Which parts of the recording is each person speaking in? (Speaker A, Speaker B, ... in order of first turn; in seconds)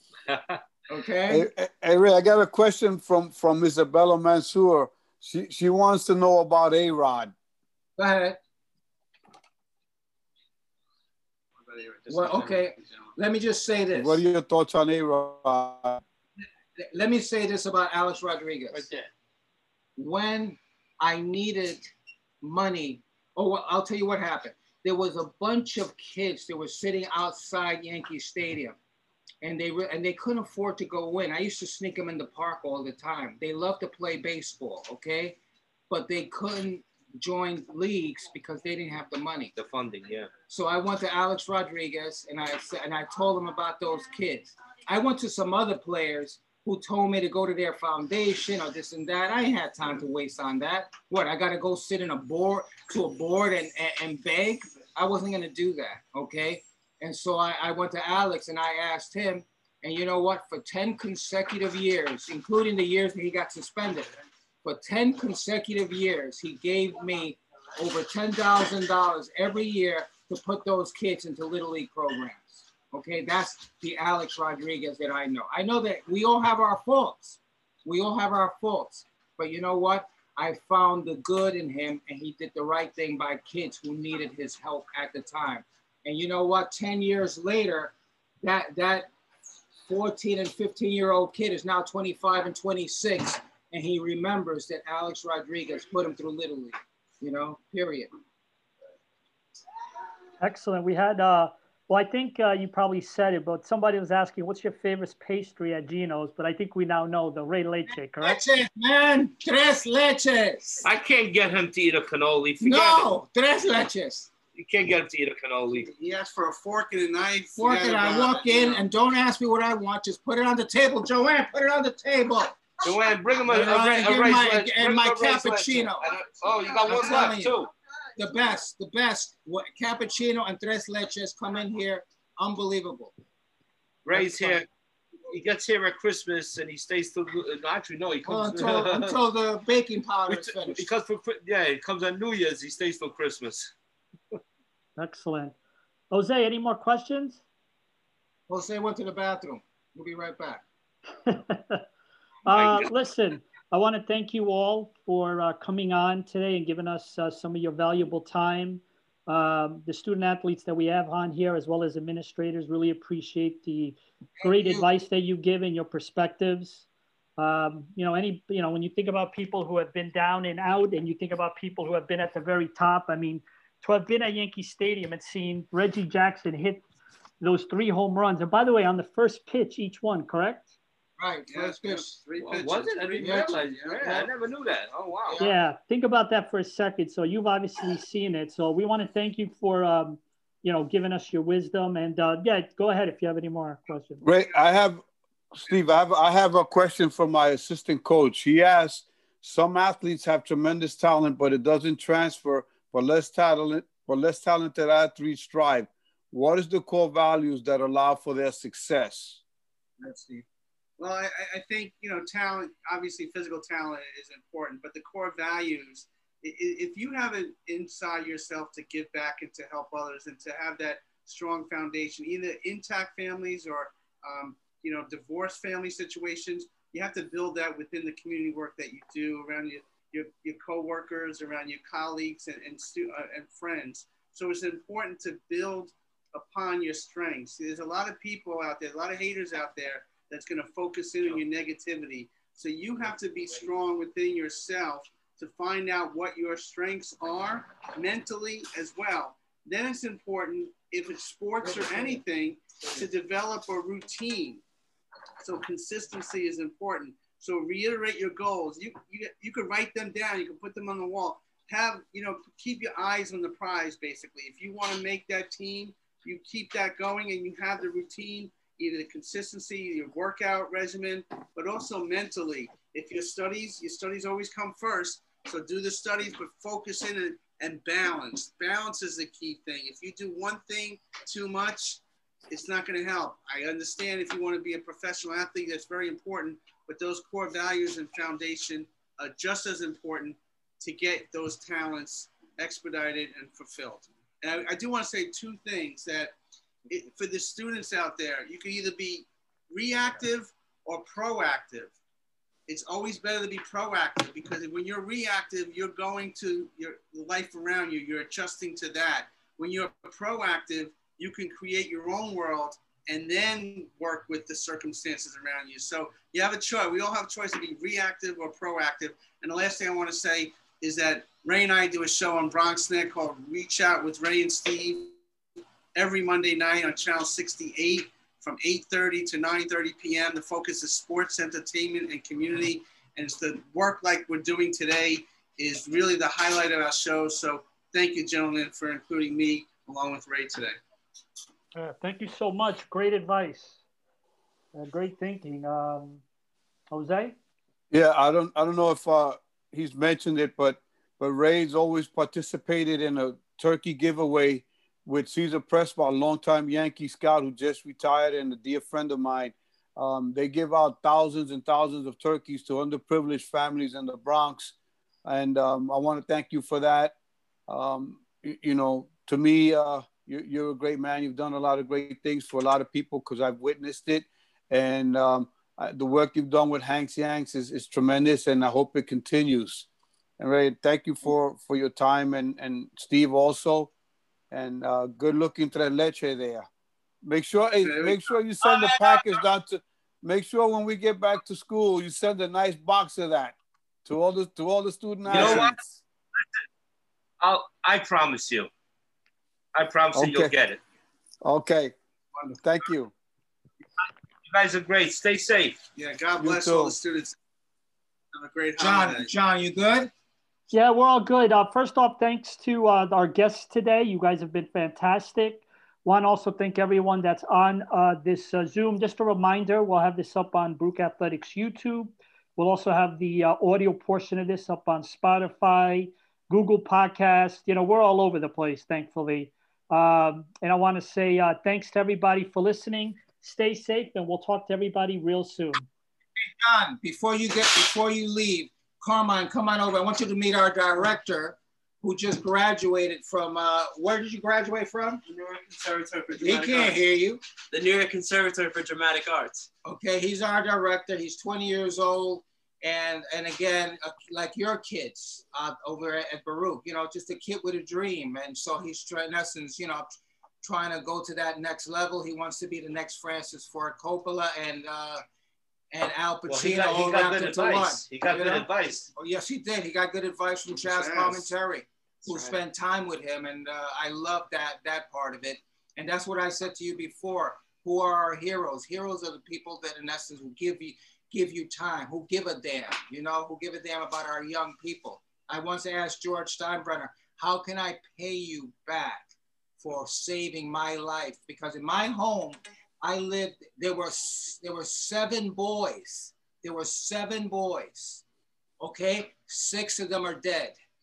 Speaker A: 0.3-0.6, 39.5-40.3, 110.8-113.1, 114.5-115.9, 122.8-127.7, 134.0-134.7, 135.3-139.2, 140.3-143.7, 152.5-152.9, 182.4-185.4, 388.7-389.2, 395.3-395.8, 397.4-398.7, 399.7-400.8, 404.4-405.8, 466.5-469.1
Speaker B: 0.9-1.5, 8.0-8.4, 12.1-14.2, 16.4-18.8, 19.9-28.8, 29.4-35.4, 35.9-39.5, 40.5-64.1, 64.6-89.1, 89.8-98.1, 108.2-110.8, 112.6-114.3, 117.5-122.6, 123.4-126.0, 126.8-127.6, 128.2-133.1, 134.1-134.7, 138.2-140.9, 148.5-150.6, 164.4-164.9, 181.2-182.2, 183.2-183.6, 210.0-210.4, 408.8-410.1, 436.6-445.2, 446.4-447.4, 449.8-460.1, 460.6-465.2, 465.9-498.2, 498.8-500.8
Speaker C: 1.3-7.3, 13.9-16.0, 194.2-195.0, 195.5-209.4, 347.9-364.7, 365.2-367.1, 367.7-379.9, 380.4-383.9, 384.5-386.7, 387.2-395.9, 400.1-400.5, 401.4-401.9, 402.6-403.1, 406.4-406.9
Speaker D: 11.7-12.2, 116.0-118.8, 181.5-184.3, 211.0-254.6, 255.4-296.3, 296.9-301.9, 302.7-325.2, 325.9-340.8, 387.8-388.3, 405.9-407.4, 408.3-409.3, 470.8-471.5
Speaker E: 12.1-12.6, 18.7-19.1, 445.2-447.0, 447.7-449.7
Speaker F: 100.4-108.4, 145.0-145.5, 146.1-147.4, 151.3-151.8, 152.4-166.8, 167.4-176.8, 177.4-180.7, 185.4-194.2, 341.7-343.8, 344.7-346.2, 346.9-347.4, 410.7-435.9